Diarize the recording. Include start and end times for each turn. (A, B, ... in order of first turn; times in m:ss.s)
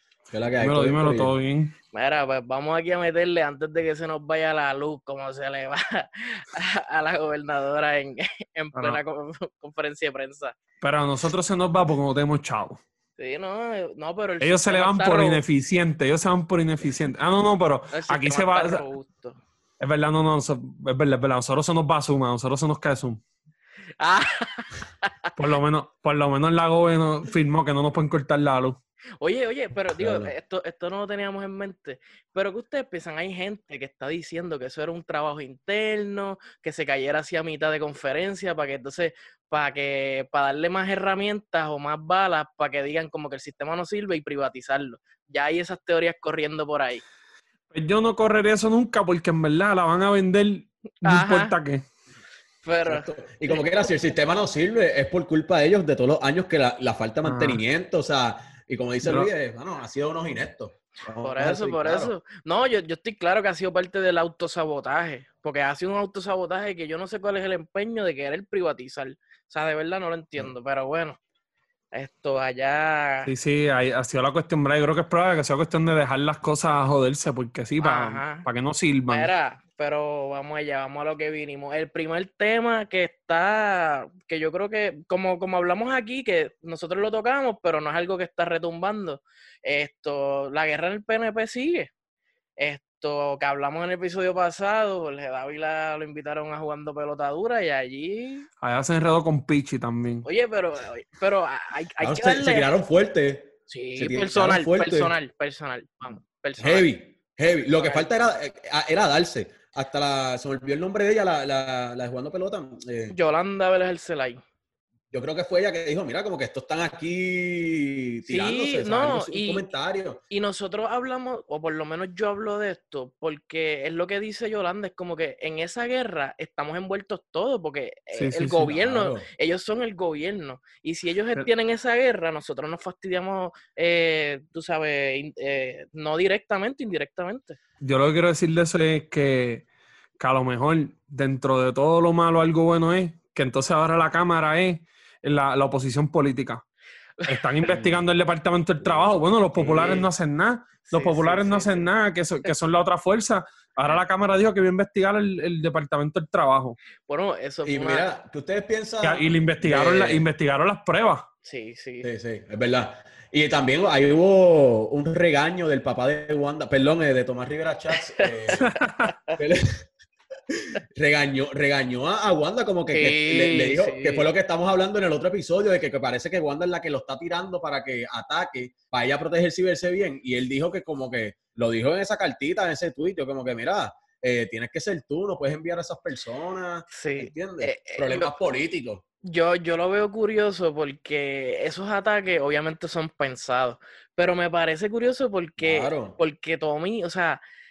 0:00.3-0:01.3 A
0:00.6-0:01.8 B
0:01.9-0:10.6 C
0:10.8-0:12.8 B
0:13.2-0:15.4 C
0:14.4-0:18.8 B
0:17.9-0:19.4 C
0:19.8-0:23.2 B
0:24.0-0:25.3 C
0:25.4-0:28.8 B
0:29.2-0:47.0 C
0:29.9-0:30.3 A
0:47.7-0:51.8 B
0:51.0-0:51.6 C
0:52.6-0:53.9 C
0:52.9-1:02.1 A
0:57.2-0:57.6 B
0:59.0-0:59.3 B
1:01.2-1:11.2 C
1:11.9-1:13.3 C
1:13.3-1:19.3 B
1:17.8-1:18.5 C
1:19.1-1:31.9 C
1:32.6-1:38.5 C
1:38.6-1:40.3 B
1:40.2-1:42.7 C
1:42.0-1:45.1 A
1:43.7-1:46.9 C
1:46.6-1:53.2 A
1:47.8-1:48.1 C
1:53.1-1:54.4 C
1:55.1-2:00.2 A
1:58.3-1:59.7 C
2:00.3-2:17.6 C
2:08.1-2:08.7 B
2:08.6-2:09.3 A
2:17.8-2:19.7 B
2:20.2-2:26.6 B
2:27.2-2:27.8 C
2:27.3-2:36.8 B
2:28.8-2:30.0 A
2:29.6-2:30.1 C
2:30.9-2:31.9 C
2:37.1-2:38.1 C
2:37.6-2:40.3 A
2:39.0-2:41.3 B
2:41.4-2:42.1 C
2:42.0-2:48.7 A
2:48.0-2:49.4 C
2:48.6-2:49.1 B
2:49.4-2:49.9 A
2:50.5-3:09.0 A
2:52.9-2:54.3 C
3:06.9-3:08.3 C
3:09.3-3:17.4 C
3:15.6-3:16.2 A